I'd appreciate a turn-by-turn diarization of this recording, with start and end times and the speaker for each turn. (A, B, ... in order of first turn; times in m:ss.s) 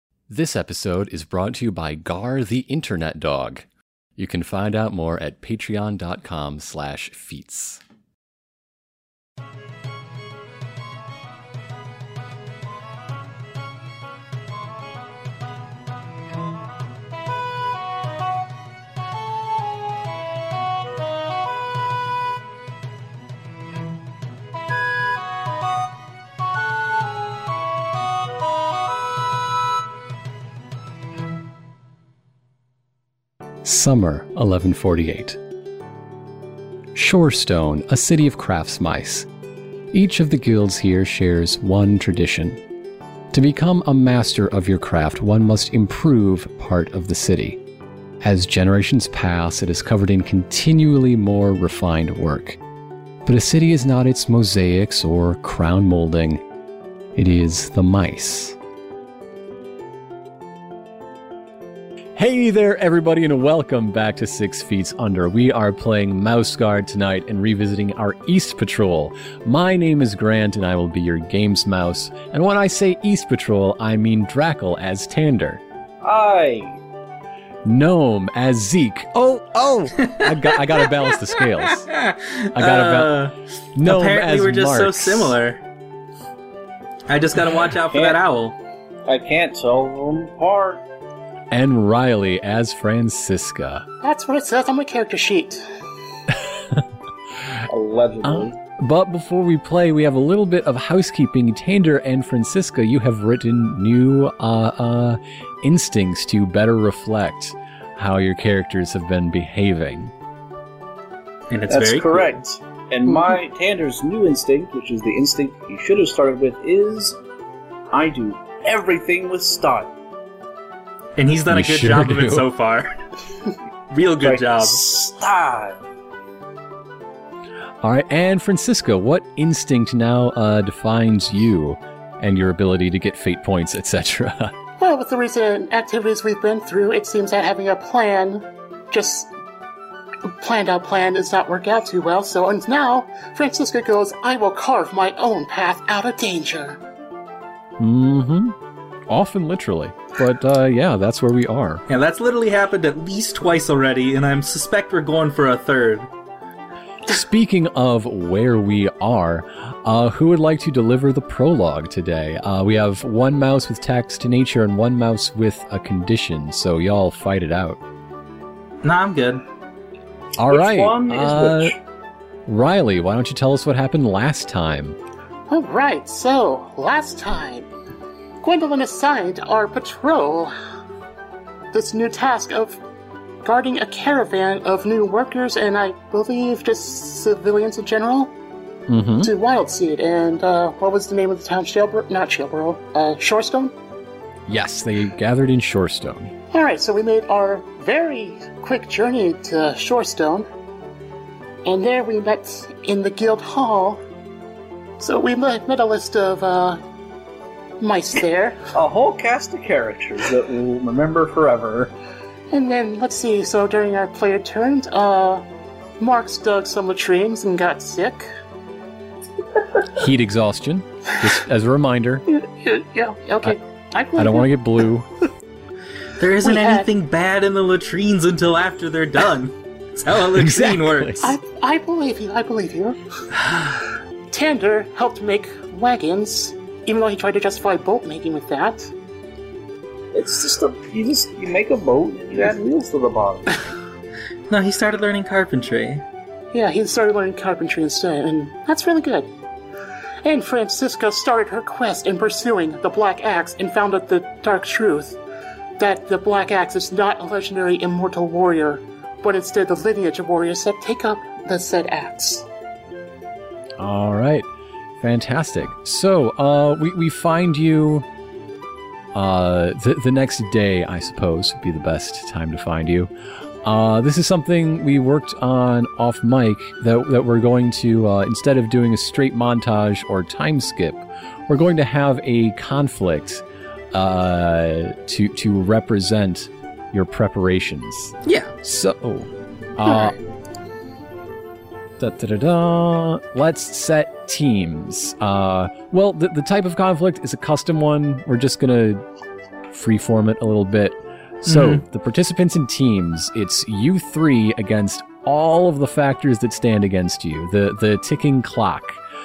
0:00.3-0:03.6 A
0:04.2-0:07.8 A
0:33.6-0:35.4 A
0:36.9-0:39.3 A
0:39.9-0:42.6 A
0:43.3-0:47.6 A
0:48.2-0:52.6 A
0:53.2-0:56.4 A
0:57.2-0:58.6 A
1:02.2-1:15.6 A
1:16.0-1:16.8 B
1:17.6-1:21.9 A
1:20.0-1:25.6 C
1:22.5-1:25.4 A
1:27.1-1:28.5 C
1:27.8-1:28.2 B
1:29.0-1:30.8 B
1:31.5-1:33.8 A
1:34.0-1:35.6 D
1:37.6-1:38.6 B
1:38.2-1:50.1 A
1:51.5-1:52.4 C
1:51.7-1:57.2 B
1:57.9-1:59.9 B
2:01.2-2:02.9 C
2:01.5-2:02.4 A
2:03.9-2:04.8 C
2:04.2-2:05.8 B
2:07.8-2:14.5 A
2:14.8-2:19.3 D
2:20.3-2:26.8 D
2:27.8-2:28.6 A
2:29.1-2:31.8 A
2:31.9-2:36.1 C
2:37.1-2:47.8 A
2:48.8-2:49.4 C
2:50.4-2:51.8 A
2:50.5-2:51.8 B
2:52.4-2:55.0 A
2:55.5-2:57.7 D
2:58.4-3:00.5 D
3:01.7-3:02.8 D
3:03.4-3:08.3 D
3:08.9-3:09.3 A
3:09.2-3:13.7 D
3:14.5-3:16.3 A
3:16.5-3:20.5 D
3:21.6-3:24.0 D
3:25.0-3:26.8 D
3:27.8-3:28.6 D
3:28.7-3:31.9 B
3:32.5-3:35.4 D
3:36.0-3:38.3 D
3:39.9-3:42.2 A
3:42.3-3:44.5 D
3:44.2-3:45.1 A
3:46.2-3:51.3 C
3:46.4-3:46.9 D
3:50.3-3:51.3 A
3:51.2-3:53.0 D
3:54.3-3:58.9 D
4:00.1-4:03.6 B
4:04.5-4:06.0 C
4:06.5-4:09.3 D
4:10.2-4:15.2 D
4:15.8-4:22.4 D
4:23.8-4:24.5 A
4:25.0-4:28.0 A
4:29.1-4:33.1 A
4:33.6-4:50.2 A
4:48.2-4:48.5 C
4:49.9-4:50.1 D
4:52.0-4:59.0 A
4:59.7-5:09.0 A
5:01.4-5:01.8 C